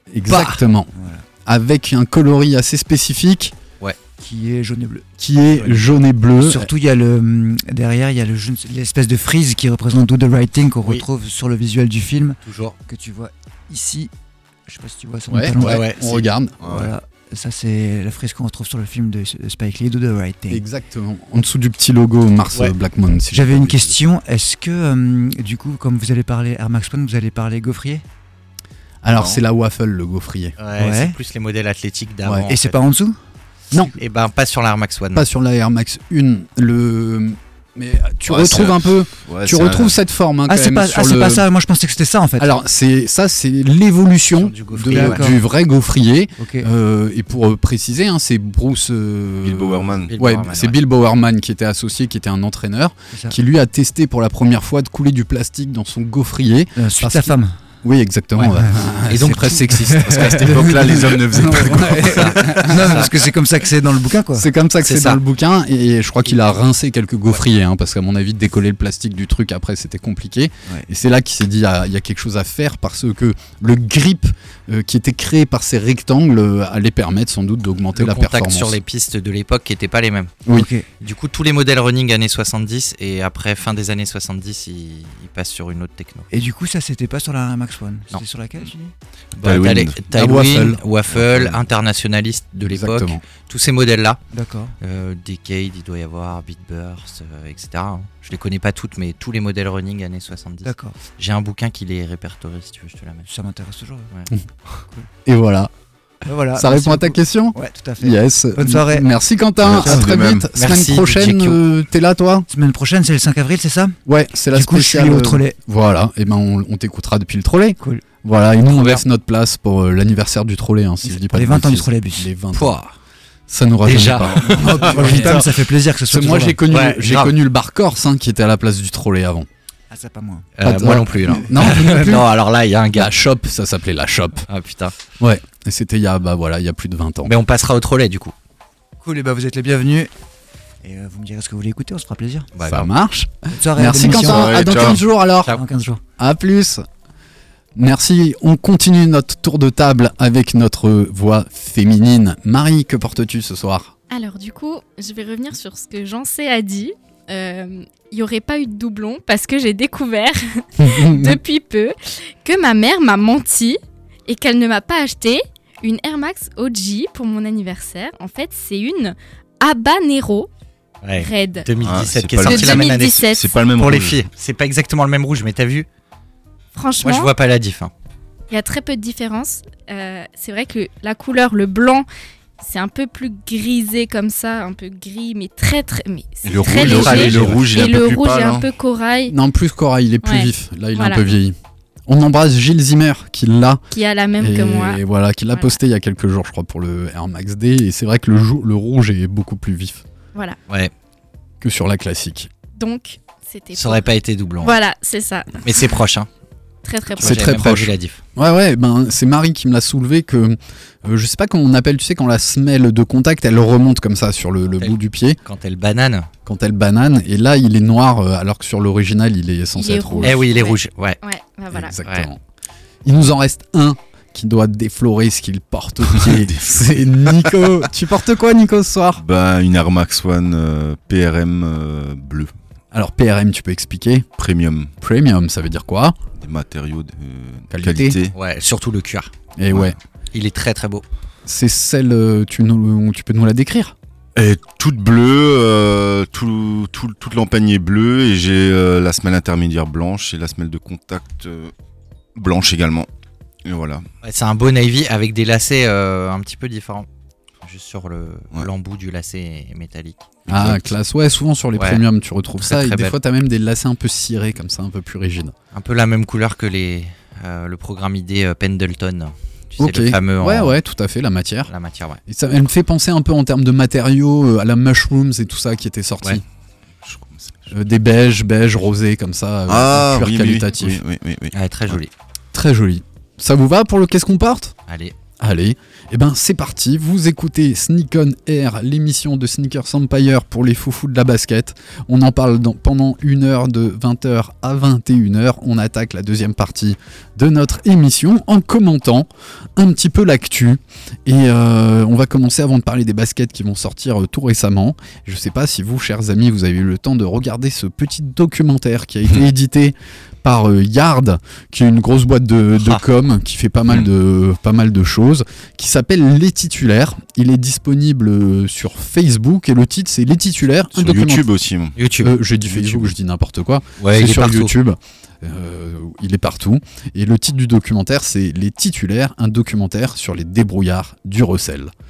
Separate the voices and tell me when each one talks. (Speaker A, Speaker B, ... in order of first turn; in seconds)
Speaker A: 0.1-0.9, 1.4-3.5, 5.2-6.7, 15.3-16.6, 20.5-24.0, 29.0-30.6, 35.1-41.4, 42.4-63.1, 64.3-78.8, 90.1-90.8, 92.7-93.2, 105.3-105.7, 106.5-112.5, 114.1-122.8, 123.5-129.5, 130.6-132.3, 132.9-134.5, 135.2-137.3, 142.7-145.6, 146.2-146.8, 147.8-153.9, 160.8-161.4, 189.3-193.8, 194.4-200.1, 201.6-202.5, 207.2-215.4, 216.5-220.4, 221.7-222.4, 223.1-229.2, 232.9-234.3, 235.0-236.2, 237.7-238.2, 239.6-240.0, 241.5-243.9, 260.5-265.5, 269.8-271.7, 272.3-276.4, 277.7-281.0, 282.5-284.8, 285.4-321.5, 322.2-331.9
Speaker B: 0.3-1.2, 4.2-5.1, 6.4-14.1, 14.7-15.9, 16.6-20.6, 23.3-28.0, 30.8-31.2, 32.5-33.2, 40.5-42.5, 44.9-45.4, 46.4-46.7, 56.8-57.6, 58.4-60.7, 61.6-64.5, 80.5-80.9, 86.3-88.9, 94.3-94.7, 100.6-101.0, 103.3-104.1, 106.2-109.1, 112.5-114.0, 114.5-115.5, 121.1-122.3, 124.5-126.6, 129.9-130.5, 131.6-132.1, 139.0-140.1, 140.8-142.5, 143.5-145.0, 145.5-146.0
Speaker C: 12.4-12.8, 15.6-16.2, 30.6-32.8, 34.0-35.3, 44.3-45.4, 50.1-50.8, 59.1-60.5, 62.0-63.1, 64.8-65.2, 66.3-66.6, 78.0-80.4, 81.0-86.3, 89.4-94.2, 94.8-103.3, 110.6-111.6, 118.7-119.0, 122.5-122.9, 123.8-125.4, 126.7-127.3, 130.6-133.1, 134.5-134.9, 137.2-138.3, 142.6-142.9, 171.0-173.2, 173.8-175.9, 177.0-177.9, 186.6-187.7, 203.7-204.8, 205.6-206.3, 207.2-208.2, 214.7-216.3, 220.2-221.2, 222.0-222.3, 238.3-239.3, 240.3-241.0, 254.2-257.1, 257.6-260.3, 261.8-262.0, 262.6-263.2, 265.7-270.8, 271.7-272.2, 281.5-282.1, 284.9-285.1, 322.0-322.4, 324.0-324.7
Speaker D: 16.6-16.9, 29.1-29.4, 38.3-40.0, 49.4-50.1, 60.1-62.5, 89.4-90.0, 91.1-91.6, 109.6-110.5, 124.2-124.6, 144.1-145.0, 171.8-174.2, 186.4-188.7, 226.1-227.8, 229.2-232.5, 234.4-234.9, 236.4-238.3, 239.7-240.0, 244.3-251.7, 252.4-253.1, 253.7-254.1, 260.5-260.9, 277.0-277.7, 279.7-282.0, 321.0-322.0, 322.7-323.1
Speaker E: 154.1-170.5, 171.2-171.7, 172.4-173.6, 176.8-177.3, 178.5-182.1, 182.6-189.4, 190.2-191.2, 193.9-195.0, 202.8-204.1, 204.6-205.7, 206.8-207.6, 219.8-222.0